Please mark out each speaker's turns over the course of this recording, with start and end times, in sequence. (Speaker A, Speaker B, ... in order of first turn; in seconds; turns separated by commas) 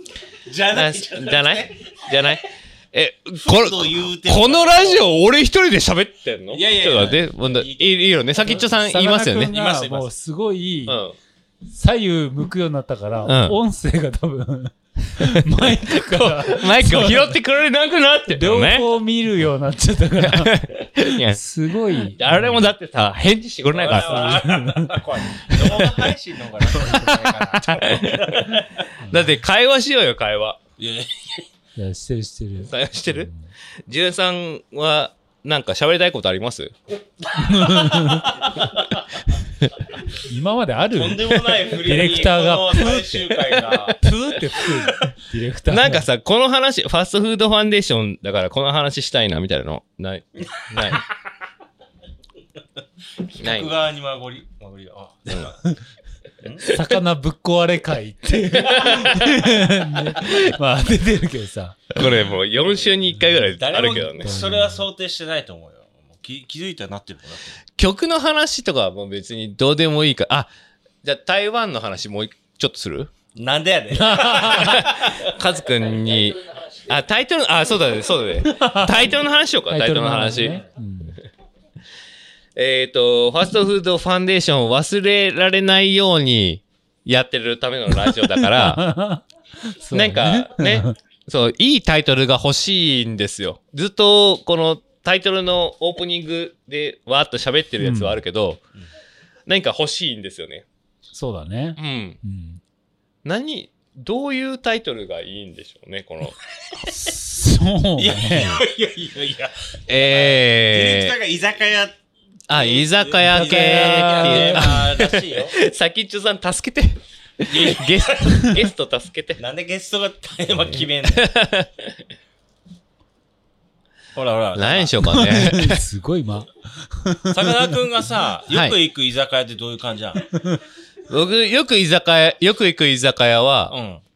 Speaker A: 0.5-1.8, Speaker B: 0.7-9.5, Speaker A: 3.4-5.1, Speaker A: 6.5-8.8, Speaker C: 8.7-11.0, Speaker A: 9.5-10.1, Speaker B: 10.9-11.2, Speaker C: 11.7-17.4, Speaker B: 13.2-13.6, Speaker B: 15.4-18.9, Speaker C: 18.3-22.7, Speaker B: 20.2-21.4, Speaker B: 21.9-24.5, Speaker A: 23.7-28.9, Speaker C: 24.0-26.0, Speaker B: 25.6-26.0, Speaker B: 27.8-30.6, Speaker C: 29.0-29.3, Speaker A: 30.8-31.5, Speaker C: 31.8-33.5, Speaker B: 32.6-33.3, Speaker B: 33.9-36.7, Speaker C: 37.4-38.4, Speaker C: 40.2-43.3, Speaker A: 40.9-45.1, Speaker C: 44.0-46.0, Speaker B: 45.7-51.0, Speaker A: 53.3-55.6, Speaker B: 53.4-53.8, Speaker C: 56.7-62.0, Speaker B: 58.5-59.3, Speaker B: 61.9-64.4, Speaker A: 63.6-67.6, Speaker C: 64.0-64.9, Speaker B: 67.8-70.5, Speaker B: 71.0-73.1, Speaker A: 73.3-74.9, Speaker C: 74.0-74.8, Speaker B: 74.5-80.7, Speaker C: 78.5-79.1, Speaker C: 79.7-81.2, Speaker B: 82.6-88.8, Speaker C: 88.0-91.0, Speaker B: 89.9-98.6, Speaker C: 97.8-98.2, Speaker B: 99.5-100.7, Speaker C: 101.1-102.6, Speaker B: 101.8-102.2, Speaker B: 103.2-106.4, Speaker C: 106.8-108.5, Speaker A: 108.0-112.0, Speaker B: 109.9-111.2, Speaker B: 112.5-119.4, Speaker A: 112.5-115.6, Speaker C: 113.2-114.8, Speaker A: 117.5-118.5, Speaker A: 119.4-121.3, Speaker B: 120.7-122.0, Speaker A: 124.2-125.0, Speaker B: 124.5-125.8, Speaker C: 125.0-127.7, Speaker A: 127.3-130.2, Speaker B: 128.5-128.8, Speaker C: 130.3-130.6, Speaker B: 131.1-133.7, Speaker A: 133.7-134.0